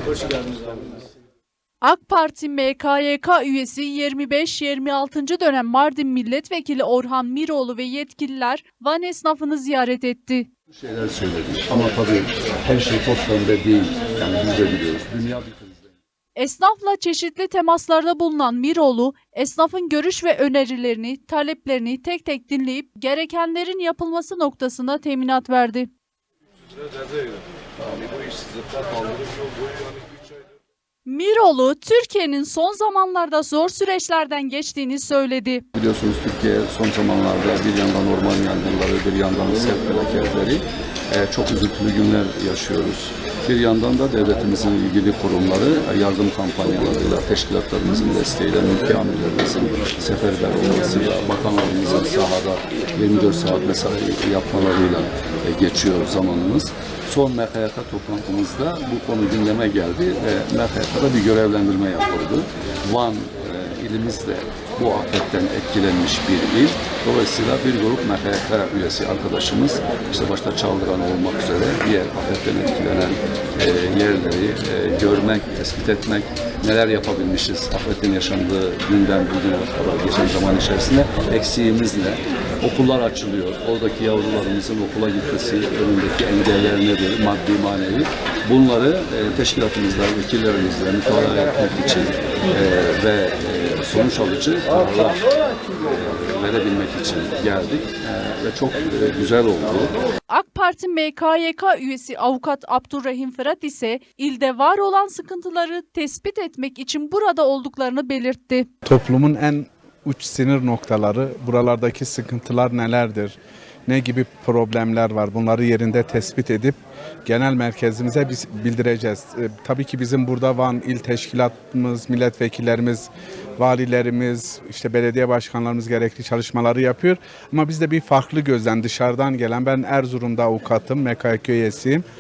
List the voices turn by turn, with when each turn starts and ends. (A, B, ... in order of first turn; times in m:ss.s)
0:01.8-0:10.5 A
0:10.7-0:15.9 B
0:16.4-0:25.9 A
0:31.0-0:35.6 A
0:35.8-1:39.9 B
1:40.3-1:48.7 A
1:48.8-1:53.4 C
1:53.9-2:12.0 C